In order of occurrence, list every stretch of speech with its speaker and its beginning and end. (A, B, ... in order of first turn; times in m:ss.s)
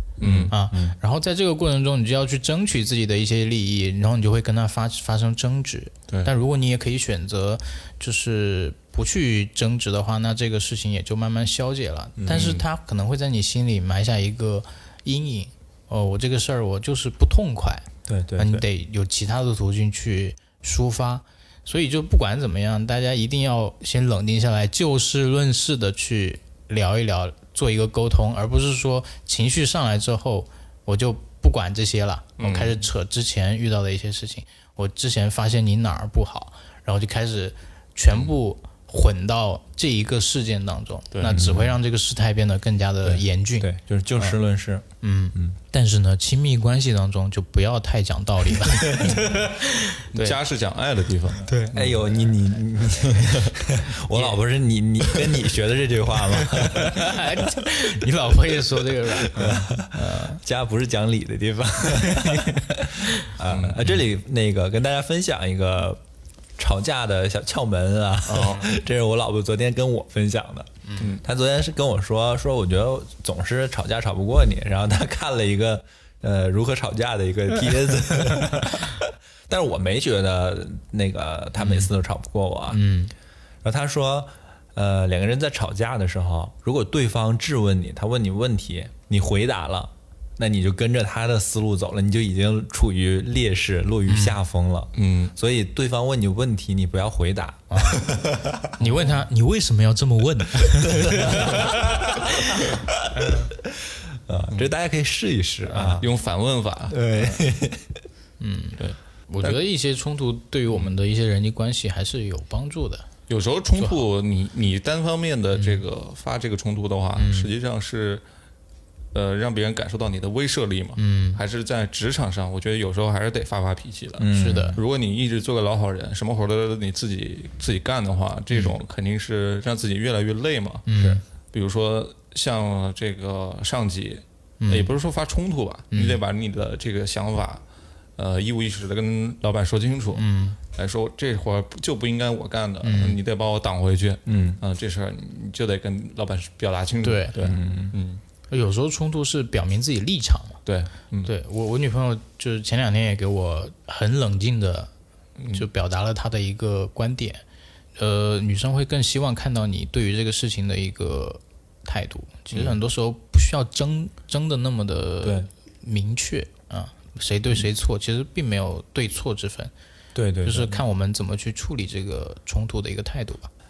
0:00.2-0:00.5 A
0:00.2-0:01.0 B
0:00.5-0:44.4 C
0:12.2-0:12.5 B
0:12.3-0:12.6 A
0:18.1-0:18.7 B
0:32.4-0:32.8 A
0:41.1-0:41.4 A
0:41.3-0:41.8 B
0:43.0-0:45.6 B
0:45.0-0:50.4 C
0:48.8-0:49.2 B
0:50.1-0:52.1 A
0:51.5-0:51.8 C
0:51.8-0:57.2 B
0:54.1-0:54.4 C
0:56.4-1:00.4 C
0:59.3-1:06.0 B
1:02.0-1:02.6 C
1:03.4-1:04.0 A
1:06.6-1:22.9 B
1:08.3-1:08.7 A
1:18.3-1:18.6 C
1:22.7-1:23.1 C
1:23.6-1:38.7 B
1:34.1-1:34.4 C
1:35.0-1:35.3 A
1:37.7-1:38.0 C
1:38.8-1:42.6 C
1:40.9-1:41.8 B
1:43.1-1:43.5 C
1:43.6-1:46.1 B
1:45.7-1:47.4 A
1:46.9-1:48.0 B
1:48.4-1:53.1 C
1:48.8-1:49.6 A
1:53.3-1:58.2 A
1:53.8-1:54.0 C
1:55.6-1:55.8 C
1:57.2-1:57.5 C
1:59.1-2:10.8 A
2:01.0-2:01.4 C
2:04.2-2:04.8 B
2:04.3-2:04.8 C
2:10.9-2:11.2 C
2:11.5-2:17.6 A
2:14.6-2:14.9 C
2:15.9-2:16.2 C
2:18.2-2:28.2 A
2:20.2-2:20.6 C
2:22.8-2:23.2 C
2:24.3-2:24.6 B
2:27.0-2:27.4 C
2:27.4-2:28.0 B
2:28.5-2:30.6 C
2:30.7-2:31.3 A
2:31.2-2:34.9 C
2:35.4-2:35.7 A
2:35.5-2:37.4 C
2:38.0-2:49.7 C
2:45.2-2:45.5 B
2:50.2-2:50.8 B
2:50.4-2:53.5 C